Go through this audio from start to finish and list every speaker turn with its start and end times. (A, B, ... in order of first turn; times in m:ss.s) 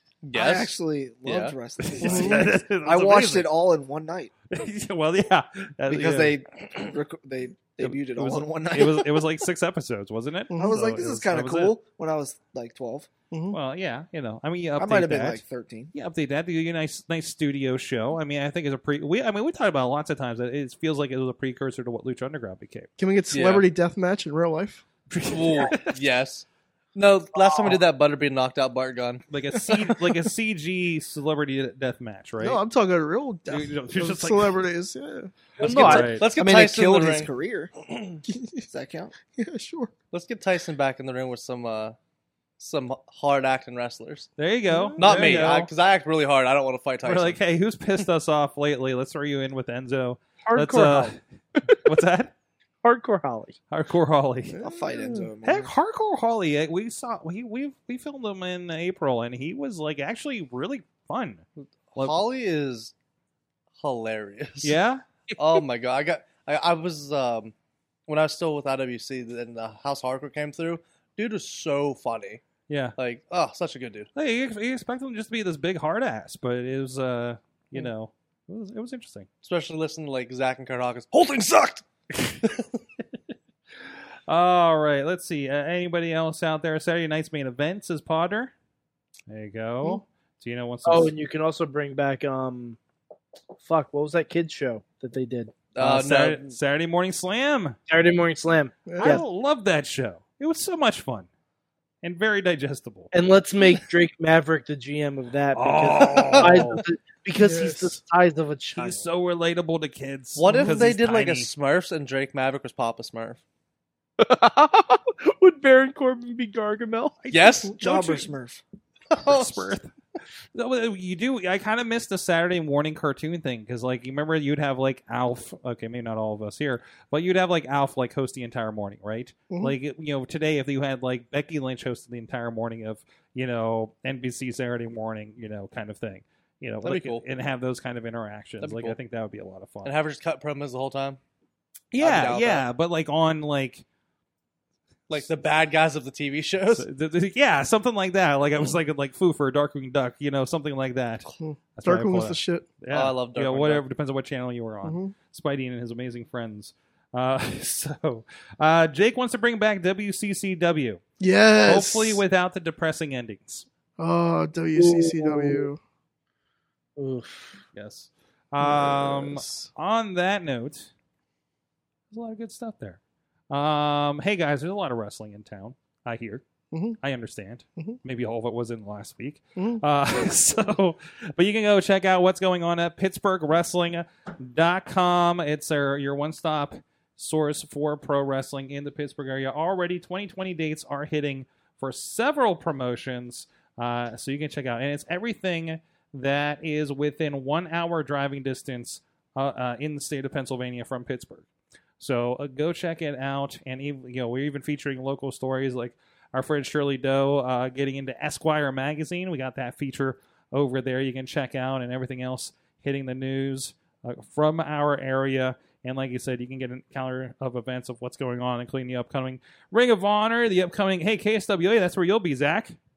0:00.2-0:01.6 A
0:00.3-0:04.3 B
0:01.8-0:03.5 C
0:02.0-0:02.5 D
0:04.5-0:06.4 C
0:05.9-0:09.3 B
0:07.8-0:11.8 C
0:10.5-0:11.0 D
0:10.6-0:13.1 B
0:13.3-0:13.6 D
0:13.5-0:15.4 C
0:14.8-0:15.9 B
0:15.9-0:22.9 C
0:23.0-0:24.8 D
0:23.3-0:23.7 A
0:25.1-0:26.0 C
0:25.3-0:29.2 A
0:29.3-0:32.6 C
0:29.6-0:30.2 D
0:32.4-0:35.3 D
0:33.5-0:34.6 C
0:35.6-0:36.2 C
0:35.6-0:36.2 E
0:35.7-0:37.3 A
0:36.1-0:37.7 B
0:37.9-0:38.2 A
0:38.3-0:38.6 D
0:38.7-0:39.1 B
0:39.3-0:39.9 D
0:40.1-0:42.0 A
0:42.6-0:44.3 A
0:44.4-0:45.7 C
0:44.7-0:45.5 D
0:45.0-0:47.4 A
0:47.0-0:51.2 C
0:50.4-0:51.2 E
0:51.8-0:52.3 C
0:52.8-0:53.6 E
0:53.7-0:54.6 C
0:54.5-0:55.3 D
0:54.6-0:55.7 B
0:55.4-1:01.4 C
1:01.9-1:02.9 A
1:03.8-1:04.8 A
1:04.6-1:05.0 C
1:05.4-1:07.5 A
1:08.1-1:12.4 A
1:12.7-1:13.0 C
1:13.0-1:14.1 A
1:14.2-1:19.3 C
1:19.4-1:21.8 A
1:22.4-1:22.8 A
1:24.3-1:28.5 C
1:29.3-1:31.1 C
1:30.8-1:32.8 E
1:33.6-1:35.6 E
1:35.8-1:36.6 A
1:35.8-1:37.8 C
1:37.9-1:39.2 E
1:38.8-1:39.2 D
1:39.0-1:41.3 C
1:42.0-1:43.1 C
1:43.1-1:49.1 E
1:45.5-1:46.8 C
1:46.3-1:46.7 A
1:47.4-1:47.9 D
1:48.8-1:51.5 C
1:50.4-1:53.4 A
1:50.5-1:50.9 D
1:54.2-1:57.4 E
1:57.3-1:58.2 A
1:57.8-1:58.6 B
1:59.1-1:59.7 A
1:59.2-1:59.9 C
2:00.6-2:20.0 C
2:09.5-2:09.8 D
2:16.8-2:17.2 A
2:18.6-2:19.0 A
2:19.8-2:21.2 A
2:21.9-2:23.8 C
2:22.0-2:22.7 A
2:25.1-2:26.9 A
2:26.7-2:41.0 C
2:31.3-2:32.7 D
2:32.9-2:33.8 A
2:34.8-2:35.1 D
2:41.2-2:42.2 D
2:41.6-2:43.7 C
2:44.0-2:45.8 D
2:44.8-2:45.6 E
2:47.0-2:47.6 E
2:47.8-2:50.9 C
2:48.6-2:49.7 D
2:52.1-2:53.0 C
2:53.5-2:56.4 C
2:56.7-2:57.0 D
2:57.0-3:21.5 C
2:59.6-2:59.8 D
3:22.0-3:42.8 C